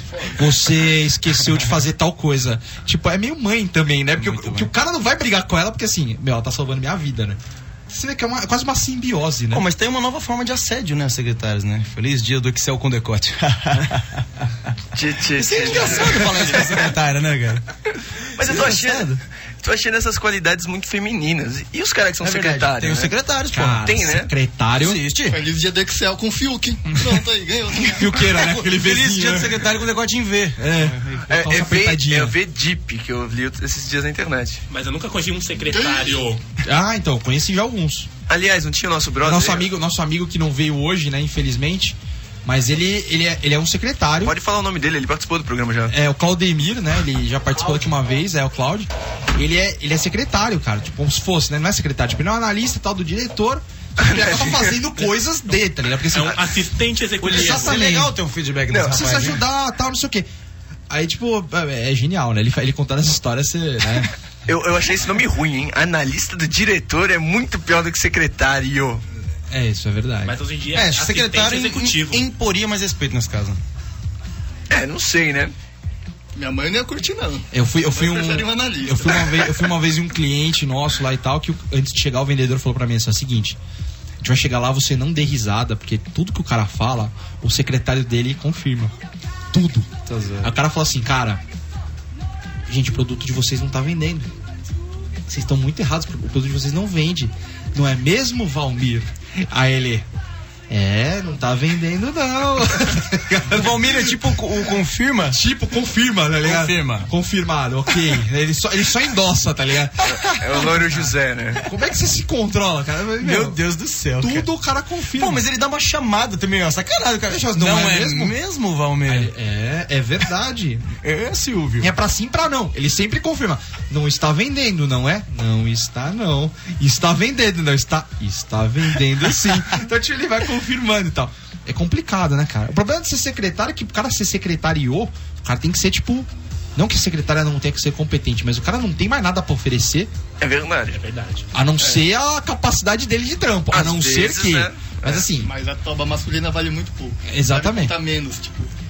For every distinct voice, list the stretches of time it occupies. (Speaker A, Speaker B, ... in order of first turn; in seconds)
Speaker A: 0.3-9.7, 23.5-25.0, 27.8-29.6, 30.6-32.4, 36.6-38.1, 39.2-44.4, 45.9-56.4, 57.3-58.1, 58.8-60.3, 60.9-64.1, 69.5-70.4, 77.5-83.6, 84.2-88.9, 89.5-91.4, 92.7-94.3, 95.3-100.1, 100.7-104.6, 105.3-111.1, 111.6-113.6, 114.2-115.4, 117.3-118.4, 119.1-120.9, 121.8-140.1, 141.5-145.5, 147.3-147.9
Speaker B: 4.2-4.7, 9.5-14.3, 15.3-17.6, 18.4-19.2, 22.2-23.9, 24.8-25.4, 28.3-31.3, 57.2-59.4, 70.7-73.6, 90.1-90.5, 103.3-105.4, 106.4-107.1, 110.1-110.6, 113.2-114.5, 115.2-119.3, 121.0-121.9
Speaker C: 14.9-16.7, 18.4-23.1, 23.8-24.3, 31.3-34.6, 38.3-39.7, 44.2-45.9, 54.0-54.7, 58.7-59.0, 64.5-69.0, 74.7-75.5, 110.2-111.7, 140.4-141.0, 143.7-145.3
Speaker D: 25.3-28.2, 35.7-36.2, 76.4-79.7, 145.4-148.7
Speaker E: 34.7-36.4, 56.1-57.8, 70.2-72.2, 140.9-141.5